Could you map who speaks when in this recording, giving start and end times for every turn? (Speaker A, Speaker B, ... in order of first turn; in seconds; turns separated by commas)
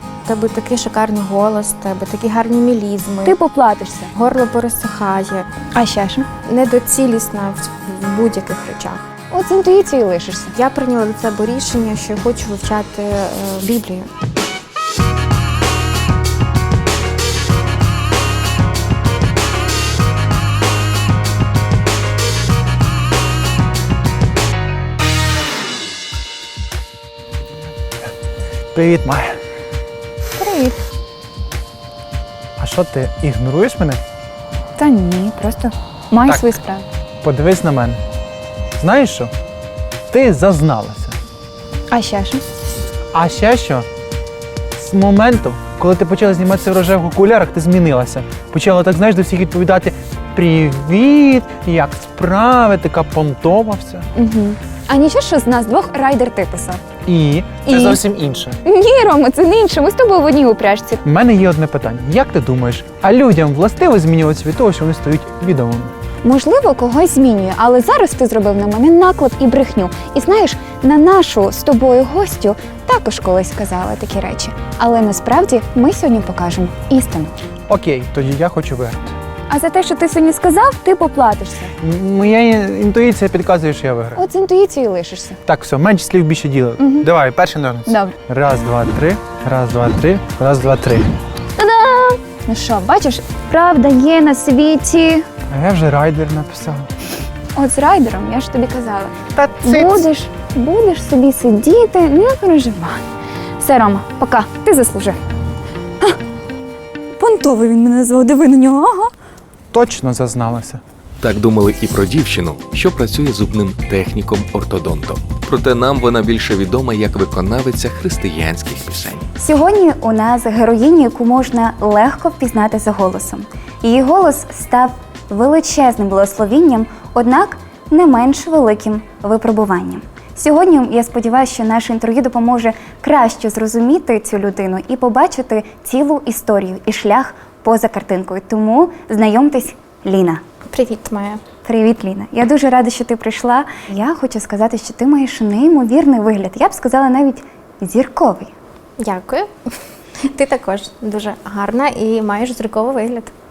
Speaker A: 0.2-3.4, Speaker B: 3.2-4.1, Speaker A: 4.1-5.6, Speaker B: 5.7-6.3, Speaker A: 6.5-9.0, Speaker B: 9.3-10.6, Speaker A: 10.5-14.1, Speaker C: 28.7-29.4, Speaker B: 30.4-30.8, Speaker C: 32.6-34.0, Speaker B: 34.8-36.9, Speaker C: 36.3-36.5, Speaker C: 37.2-38.0, Speaker C: 38.8-39.3, Speaker C: 40.1-41.2, Speaker B: 41.9-42.5, Speaker C: 43.1-43.9, Speaker C: 44.8-54.1, Speaker B: 54.1-56.8, Speaker C: 57.1-58.6, Speaker B: 57.7-58.0, Speaker B: 58.6-61.0, Speaker C: 61.0-65.9, Speaker B: 66.2-77.4, Speaker C: 77.7-79.2, Speaker B: 79.5-81.7, Speaker C: 81.8-84.2, Speaker B: 84.2-85.4, Speaker C: 85.5-91.1, Speaker B: 86.8-87.1, Speaker B: 87.9-88.2, Speaker B: 91.6-95.3, Speaker C: 95.5-96.9, Speaker B: 97.5-103.0, Speaker C: 99.4-100.0, Speaker B: 103.6-105.2, Speaker B: 107.2-109.1, Speaker C: 109.7-110.8, Speaker D: 111.2-119.3, Speaker B: 119.4-140.4, Speaker A: 140.7-141.4, Speaker B: 141.6-148.5, Speaker A: 149.0-149.5, Speaker A: 150.2-153.3